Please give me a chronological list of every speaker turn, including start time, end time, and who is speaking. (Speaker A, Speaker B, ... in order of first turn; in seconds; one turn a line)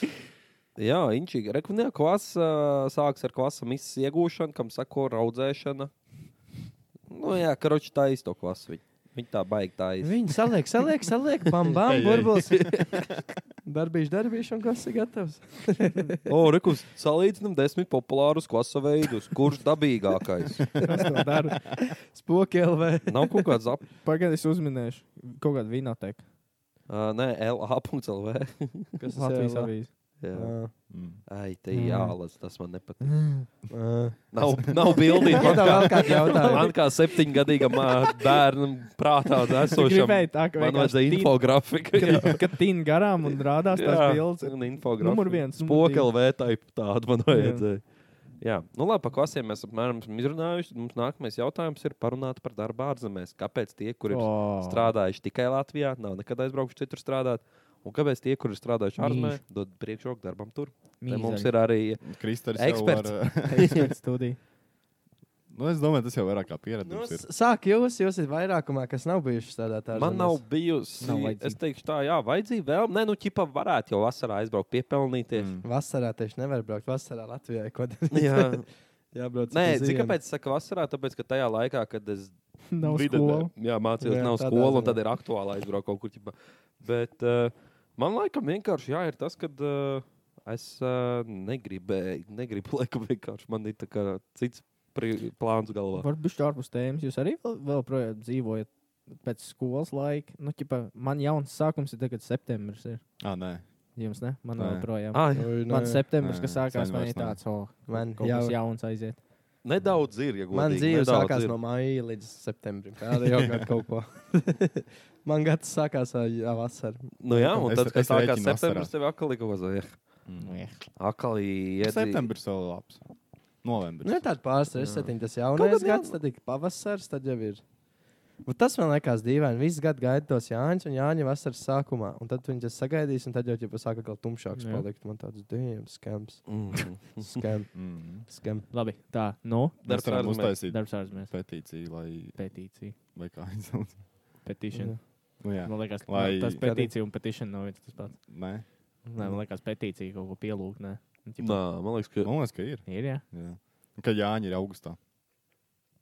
Speaker A: 0.8-5.9
Speaker A: 7.1-10.5
Speaker B: 10.0-12.6
Speaker C: 11.9-13.0
Speaker A: 12.4-13.2
Speaker B: 13.6-16.2
Speaker A: 16.3-20.8
Speaker D: 20.8-21.6
Speaker B: 22.1-23.5
Speaker A: 23.1-23.8
Speaker D: 24.0-26.2
Speaker A: 26.9-29.0
Speaker B: 29.0-30.7
Speaker D: 29.1-29.9
Speaker A: 30.2-30.5
Speaker C: 30.9-31.2
Speaker A: 31.2-33.5
Speaker B: 31.7-32.1
Speaker B: 33.7-34.3
Speaker A: 34.3-42.5
Speaker B: 35.3-36.8
Speaker D: 36.4-36.7
Speaker D: 39.7-46.1
Speaker A: 43.7-62.0
Speaker D: 47.3-47.6
Speaker D: 54.1-54.9
Speaker D: 59.0-59.4
Speaker D: 61.0-61.5
Speaker C: 62.0-63.9
Speaker A: 62.5-63.8
Speaker D: 63.5-64.4
Speaker C: 65.5-67.3
Speaker B: 66.8-70.4
Speaker A: 69.9-75.6
Speaker D: 71.0-71.6
Speaker C: 75.3-75.6
Speaker B: 75.6-78.6
Speaker A: 78.1-78.7
Speaker B: 79.1-80.2
Speaker A: 79.5-96.1
Speaker D: 82.7-83.5
Speaker B: 84.0-85.0
Speaker D: 95.9-103.0
Speaker C: 103.2-103.6
Speaker D: 104.0-109.2
Speaker C: 104.5-104.9
Speaker A: 105.1-105.6
Speaker B: 105.3-106.0
Speaker C: 106.2-107.4
Speaker B: 107.9-108.6
Speaker A: 109.6-111.6
Speaker B: 110.5-117.6
Speaker A: 117.2-120.0
Speaker C: 117.6-118.9
Speaker C: 120.3-120.6
Speaker D: 120.4-120.8
Speaker A: 121.0-122.2
Speaker C: 121.8-123.0
Speaker C: 123.6-124.3
Speaker B: 124.0-127.6
Speaker A: 124.8-126.2
Speaker B: 128.4-138.7
Speaker D: 134.6-134.9
Speaker A: 136.5-137.4
Speaker C: 137.7-138.3
Speaker D: 138.7-141.4
Speaker A: 139.8-140.6
Speaker C: 139.8-142.5
Speaker D: 142.4-143.0
Speaker C: 143.1-144.0
Speaker D: 144.4-148.2
Speaker B: 144.7-145.0
Speaker C: 145.4-146.7
Speaker B: 146.6-146.9
Speaker C: 148.2-148.6
Speaker D: 149.0-151.6
Speaker A: 151.4-152.3
Speaker C: 152.2-155.0
Speaker D: 152.8-153.2